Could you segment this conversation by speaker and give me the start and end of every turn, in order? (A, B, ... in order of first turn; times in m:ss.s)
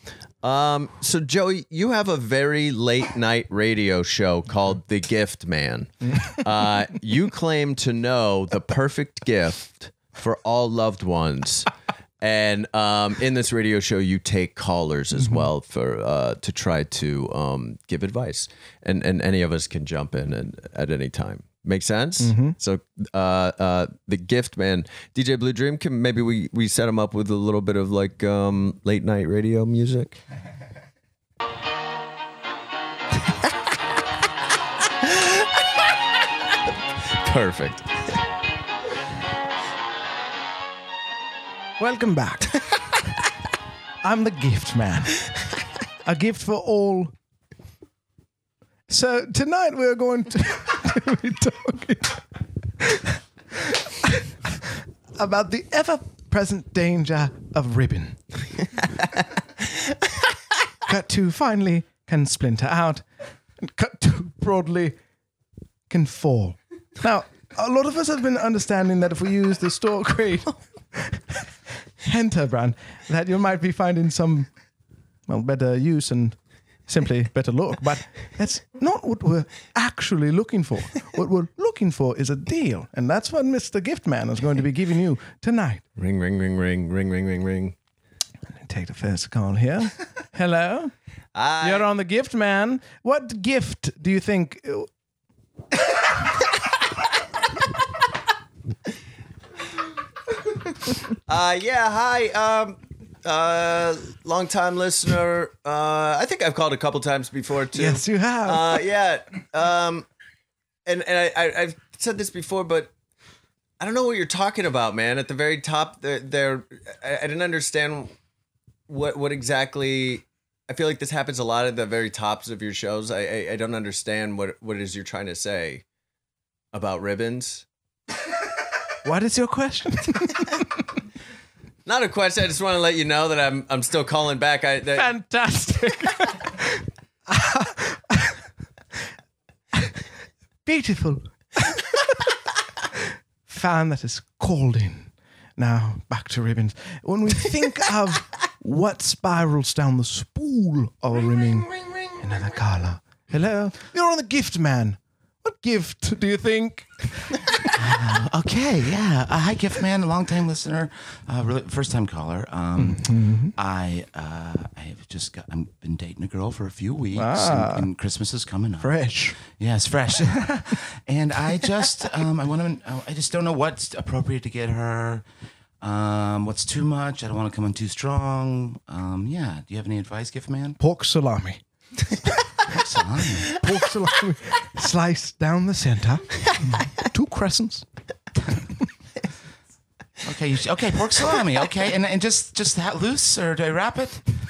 0:00.4-0:30.2 A
0:15.2-0:15.5 B
0:22.2-0:22.6 B
0:37.2-0:37.9 A
0:41.8-0:42.6 B
0:44.0-0:45.3 B
0:46.0-0:47.1 B
0:48.9-0:52.2 B
0:55.2-0:58.2 B
1:00.9-1:03.0 B
1:03.6-1:05.0 B
1:05.9-1:11.2 B
1:12.0-1:14.5 B
1:15.3-1:25.8 B
1:26.0-1:27.8 A
1:28.5-1:30.9 B
1:31.4-1:31.9 A
1:31.6-1:34.9 B
1:41.3-1:50.1 A
1:47.7-1:48.8 B
1:50.9-1:52.9 A
1:53.8-1:58.1 A
1:58.9-2:05.8 A
2:06.7-2:07.6 A
2:09.0-2:10.6 B
2:11.9-2:15.2 A
2:14.9-2:18.4 B
2:20.6-2:21.8 B
2:23.5-2:37.4 B
2:37.7-2:55.2 C
2:42.8-2:43.5 B
2:47.2-2:47.9 B
2:48.8-2:49.4 B
2:55.8-3:00.8 C
3:00.8-3:01.6 B
3:02.7-3:03.6 C
3:03.5-3:07.9 B
3:10.2-3:14.2 C